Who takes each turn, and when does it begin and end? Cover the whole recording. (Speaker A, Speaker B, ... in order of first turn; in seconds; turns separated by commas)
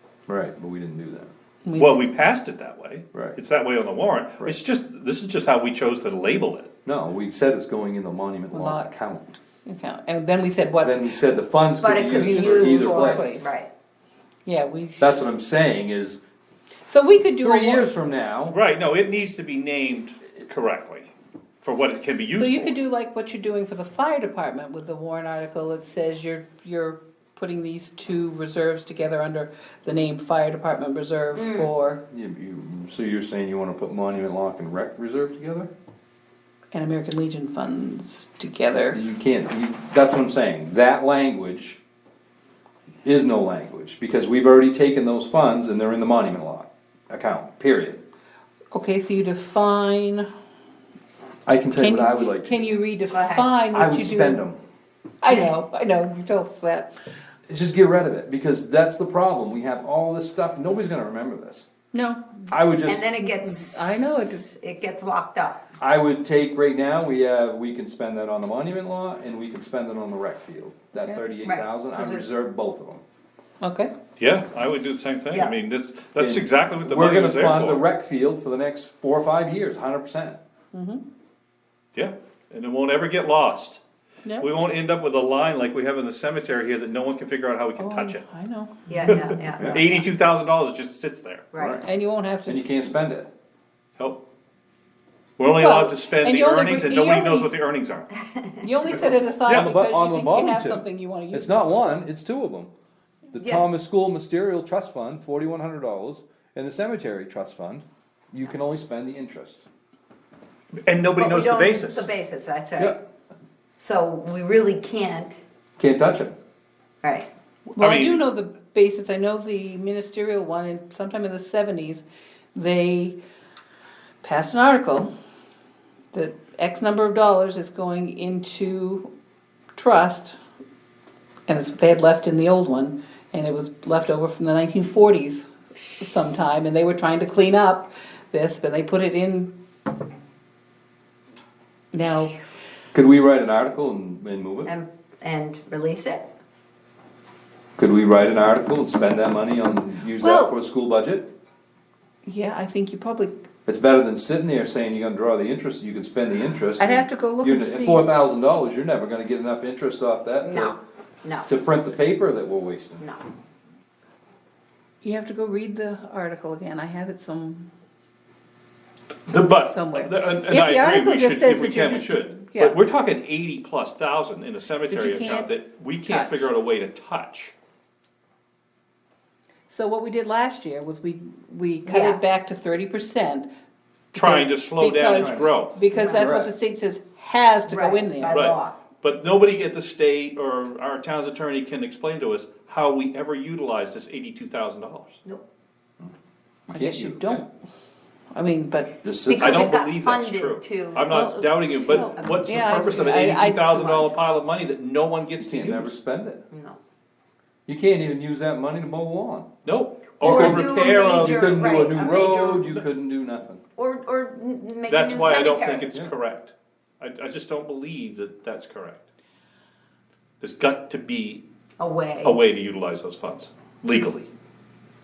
Speaker A: 0.3-1.3, Speaker B: 1.6-2.1, Speaker C: 1.8-6.7, Speaker A: 3.1-3.4, Speaker A: 6.8-9.3, Speaker B: 8.5-8.9, Speaker B: 9.6-11.0, Speaker A: 10.8-13.4, Speaker D: 11.8-13.7, Speaker B: 12.1-13.5, Speaker B: 14.4-15.1, Speaker A: 15.0-16.2, Speaker B: 16.9-17.9, Speaker A: 17.4-18.6, Speaker C: 18.5-21.1, Speaker C: 21.6-22.7, Speaker B: 22.3-32.0, Speaker D: 31.3-31.7, Speaker A: 32.1-35.7, Speaker B: 36.7-39.0, Speaker A: 38.9-41.8, Speaker A: 43.0-48.0, Speaker B: 48.7-50.3, Speaker A: 51.5-52.5, Speaker B: 51.7-54.4, Speaker D: 53.1-53.5, Speaker A: 53.7-54.6, Speaker B: 55.2-56.9, Speaker A: 57.5-61.6, Speaker B: 61.9-62.5, Speaker A: 62.5-63.0, Speaker D: 62.9-65.6, Speaker B: 63.2-64.4, Speaker A: 65.8-73.0, Speaker B: 70.9-71.2, Speaker D: 71.4-72.3, Speaker B: 73.6-73.9, Speaker C: 74.2-77.8, Speaker A: 76.2-80.4, Speaker B: 80.7-81.0, Speaker C: 81.9-83.8, Speaker C: 84.4-88.2, Speaker B: 87.8-89.3, Speaker D: 88.9-90.0, Speaker C: 89.1-91.5, Speaker D: 91.5-91.8, Speaker A: 91.5-91.9, Speaker B: 91.8-92.8, Speaker A: 92.5-93.3, Speaker C: 94.0-94.2, Speaker C: 95.4-98.1, Speaker B: 95.5-97.5, Speaker B: 98.6-101.7, Speaker A: 99.0-102.7, Speaker C: 99.3-99.7, Speaker A: 103.3-109.7, Speaker D: 103.3-103.7, Speaker C: 110.8-112.1, Speaker D: 111.2-113.0, Speaker D: 113.8-115.4, Speaker A: 115.8-116.3, Speaker D: 117.0-117.3, Speaker C: 117.7-118.2, Speaker B: 117.8-123.2, Speaker B: 124.2-125.1, Speaker B: 126.1-129.1, Speaker B: 129.8-130.4, Speaker B: 131.5-135.5, Speaker B: 136.0-139.5, Speaker B: 141.9-142.4, Speaker A: 142.9-144.7, Speaker D: 144.6-146.3, Speaker A: 147.8-151.3, Speaker B: 150.2-150.5, Speaker B: 152.2-153.3, Speaker A: 153.7-160.8, Speaker B: 156.8-158.1, Speaker D: 160.4-161.5, Speaker A: 161.5-163.0, Speaker B: 165.0-167.7, Speaker C: 169.3-177.5, Speaker B: 169.7-172.8, Speaker B: 174.9-175.5, Speaker B: 176.1-176.4, Speaker B: 179.7-183.5, Speaker D: 181.8-182.2, Speaker B: 184.1-188.4, Speaker C: 184.1-185.8, Speaker A: 185.0-186.5, Speaker D: 185.9-186.3, Speaker D: 187.7-188.8, Speaker C: 188.2-195.2, Speaker A: 196.7-197.4, Speaker B: 196.7-197.5, Speaker B: 198.3-198.9, Speaker A: 199.0-199.7, Speaker D: 199.2-202.4, Speaker C: 199.4-205.9, Speaker B: 201.1-204.1, Speaker A: 205.4-206.4, Speaker D: 206.5-206.8, Speaker A: 207.7-209.5, Speaker C: 209.6-211.7, Speaker D: 210.2-212.8, Speaker A: 210.2-213.6, Speaker D: 213.8-215.9, Speaker C: 214.9-219.1, Speaker C: 220.4-221.4, Speaker D: 221.8-222.4, Speaker C: 222.2-224.3